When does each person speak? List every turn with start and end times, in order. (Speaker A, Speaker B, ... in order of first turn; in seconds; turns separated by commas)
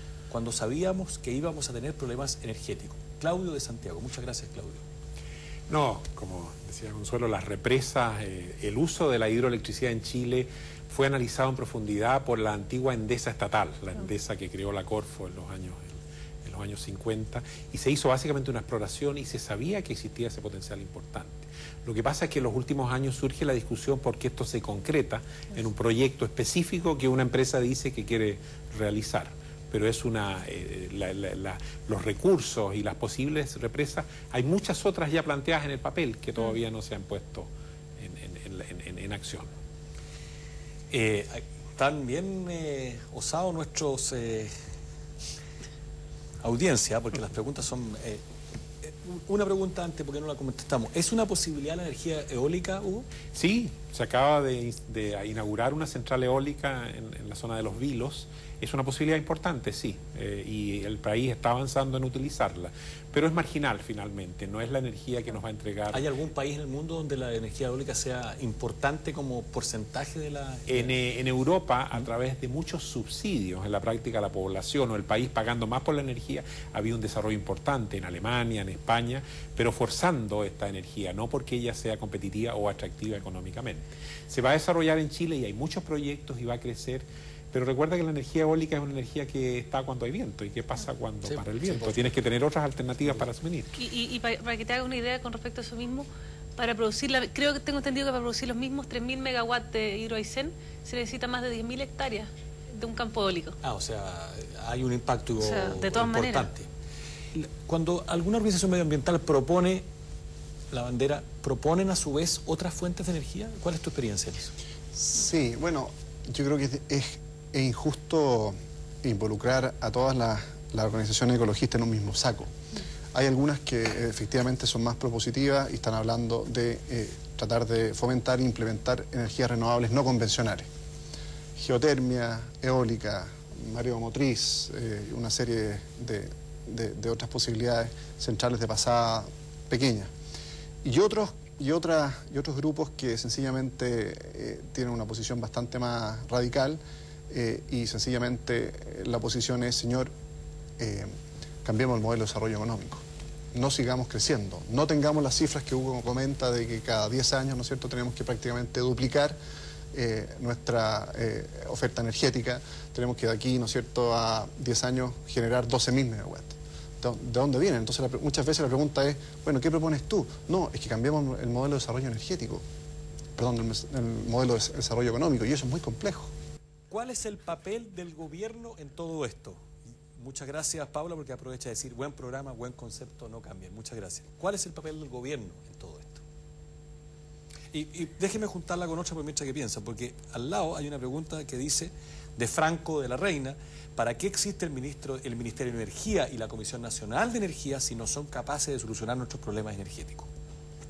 Speaker A: 0.3-4.8, Speaker B: 5.7-39.5, Speaker A: 40.9-44.5, Speaker A: 46.4-48.2, Speaker A: 48.8-53.1, Speaker B: 53.3-66.0, Speaker A: 65.9-70.9, Speaker B: 70.7-93.8, Speaker A: 91.2-92.2, Speaker C: 93.8-103.6, Speaker A: 103.6-106.7, Speaker C: 105.4-106.5, Speaker A: 107.3-109.8, Speaker A: 110.7-114.5, Speaker D: 114.9-122.5, Speaker D: 123.1-130.7, Speaker D: 131.6-140.1, Speaker D: 140.8-150.1, Speaker D: 150.8-151.1, Speaker D: 151.6-153.0, Speaker D: 153.5-159.3, Speaker D: 159.9-172.6, Speaker D: 173.4-176.3, Speaker A: 176.9-186.2, Speaker A: 187.7-200.3